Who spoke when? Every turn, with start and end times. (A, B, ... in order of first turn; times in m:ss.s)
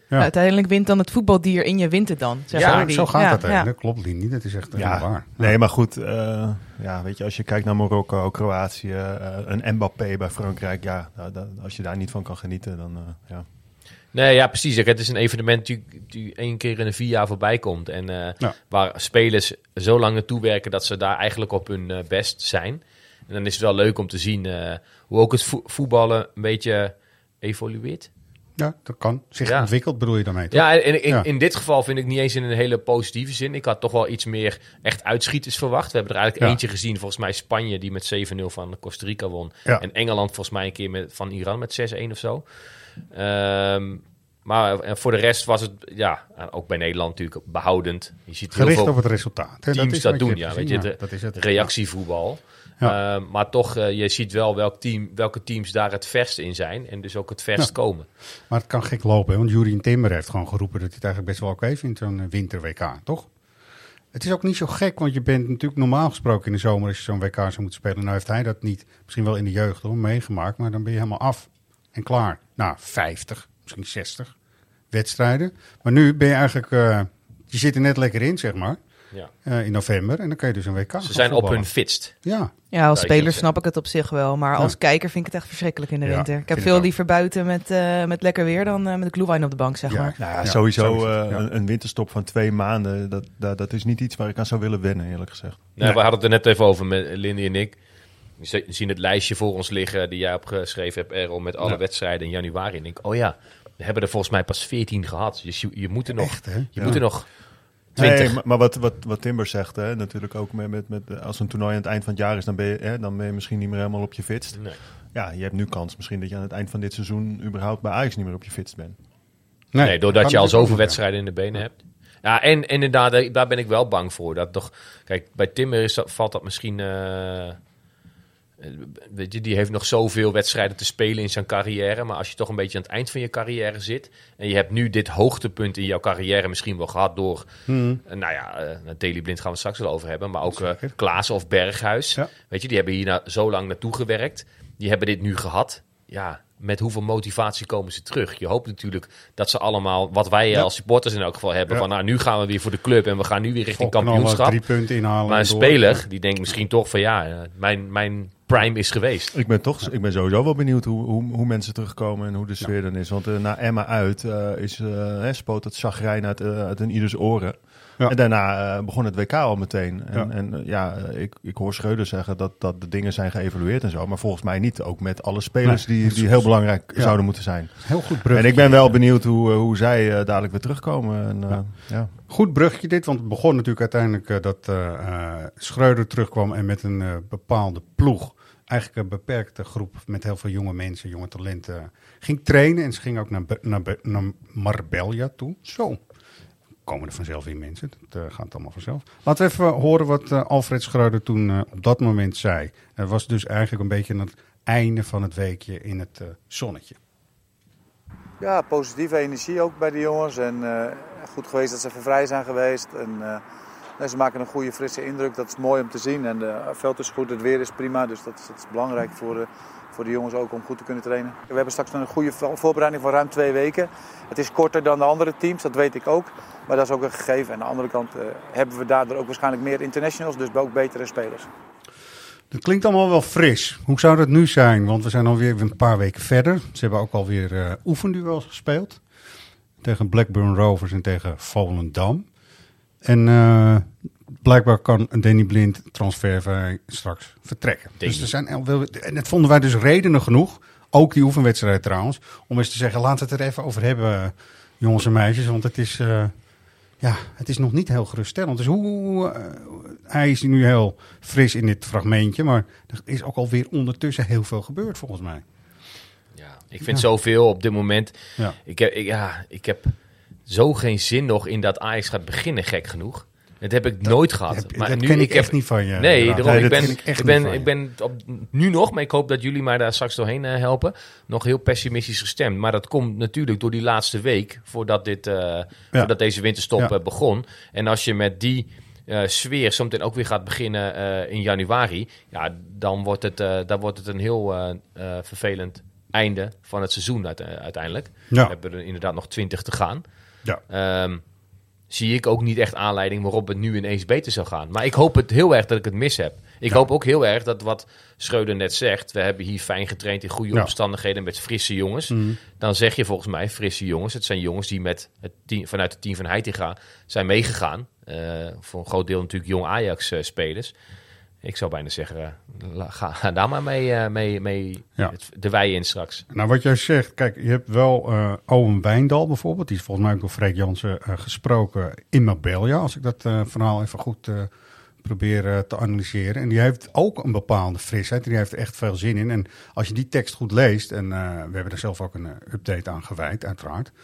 0:00.2-0:03.7 A
0:02.5-0:02.9 B
0:02.6-0:05.6 C
0:04.8-0:13.5 D
0:14.1-0:28.1 B
0:28.6-0:31.3 C
0:29.4-0:29.7 B
0:30.5-0:42.4 B
0:43.1-0:49.0 B
0:48.5-0:51.7 C
0:49.7-0:58.1 B
0:58.5-1:03.3 C
1:04.1-1:14.3 C
1:14.9-1:18.8 C
1:19.4-1:21.7 C
1:21.0-1:22.1 B
1:22.2-1:22.5 C
1:22.7-1:30.2 A
1:22.9-1:23.5 B
1:26.0-1:26.9 C
1:29.9-1:31.4 C
1:30.2-1:35.6 D
1:35.8-1:37.8 B
1:38.4-1:47.3 B
1:46.1-1:47.2 C
1:46.8-1:47.1 D
1:48.0-1:48.4 B
1:48.0-1:48.2 C
1:48.0-1:59.0 D
1:54.5-1:54.8 B
1:59.7-2:01.0 C
1:59.8-2:07.6 B
2:08.6-2:17.5 B
2:17.7-2:18.0 C
2:18.1-2:34.6 B
2:20.5-2:20.9 C
2:33.8-2:36.0 C
2:35.3-2:39.3 B
2:39.3-3:02.1 D
2:55.6-2:59.0 C
3:02.3-3:16.0 C
3:16.9-3:27.0 C
3:28.4-3:33.4 E
3:34.0-3:51.5 E
3:52.5-3:59.0 C
3:59.8-4:02.3 C
4:03.0-4:16.3 C
4:08.0-4:08.3 B
4:17.0-4:25.4 C
4:26.4-4:30.0 B
4:30.5-5:00.0 B
4:34.0-4:37.7 C
4:36.4-4:37.0 D
5:00.7-5:01.2 B
5:01.9-5:20.7 B
5:12.1-5:12.4 C
5:21.4-5:26.2 B
5:26.3-5:34.5 C
5:35.0-5:43.9 C